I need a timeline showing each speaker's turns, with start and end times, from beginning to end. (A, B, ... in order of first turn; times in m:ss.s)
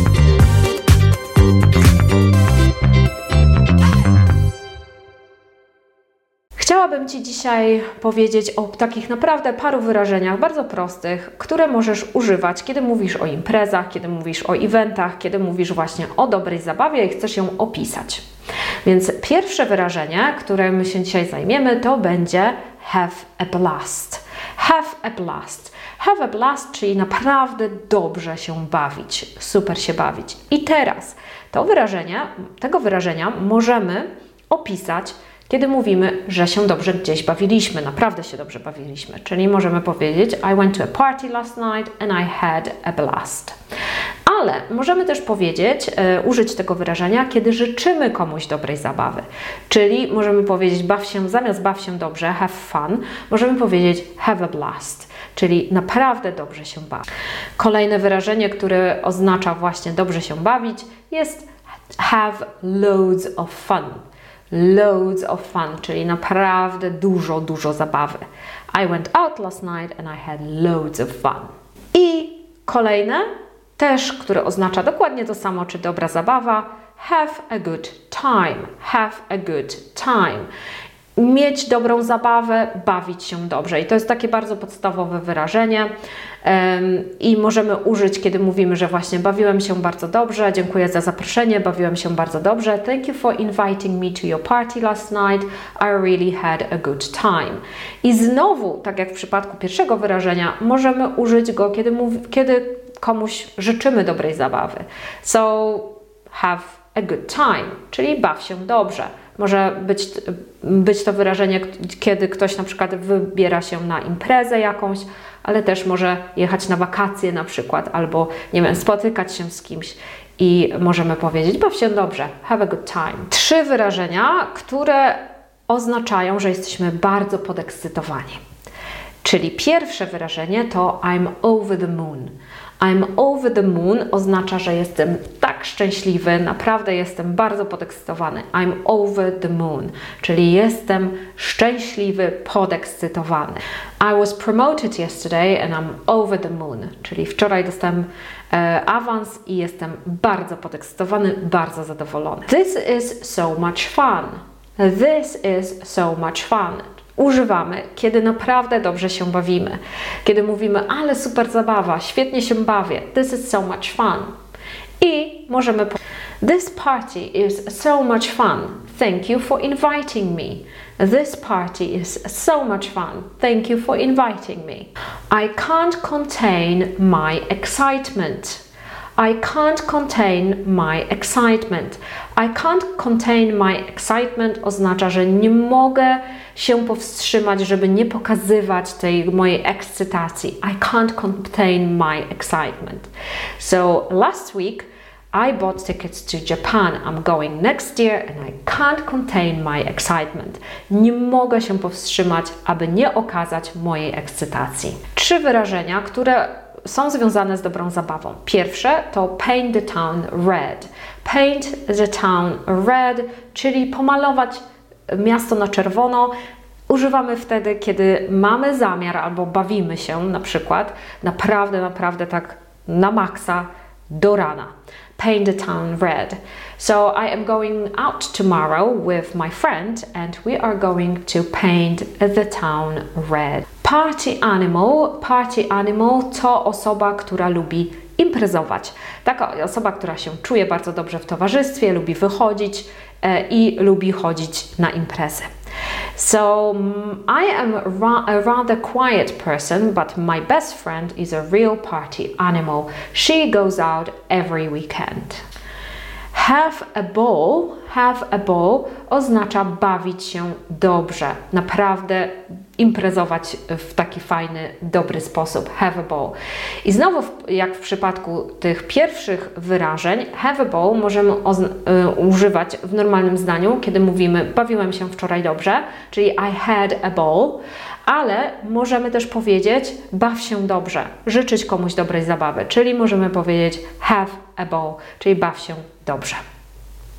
0:06.6-0:18.2 A
0:18.8-0:43.6 A
0:44.2-0:57.0 A
0:57.6-1:13.3 A
1:13.8-1:20.5 A
1:21.2-1:25.9 A
1:26.4-2:08.4 A
2:09.2-2:44.3 A
2:45.0-2:58.6 A
2:59.2-3:36.3 A
3:36.9-4:05.5 A
4:06.2-4:15.4 A
4:16.3-4:46.4 A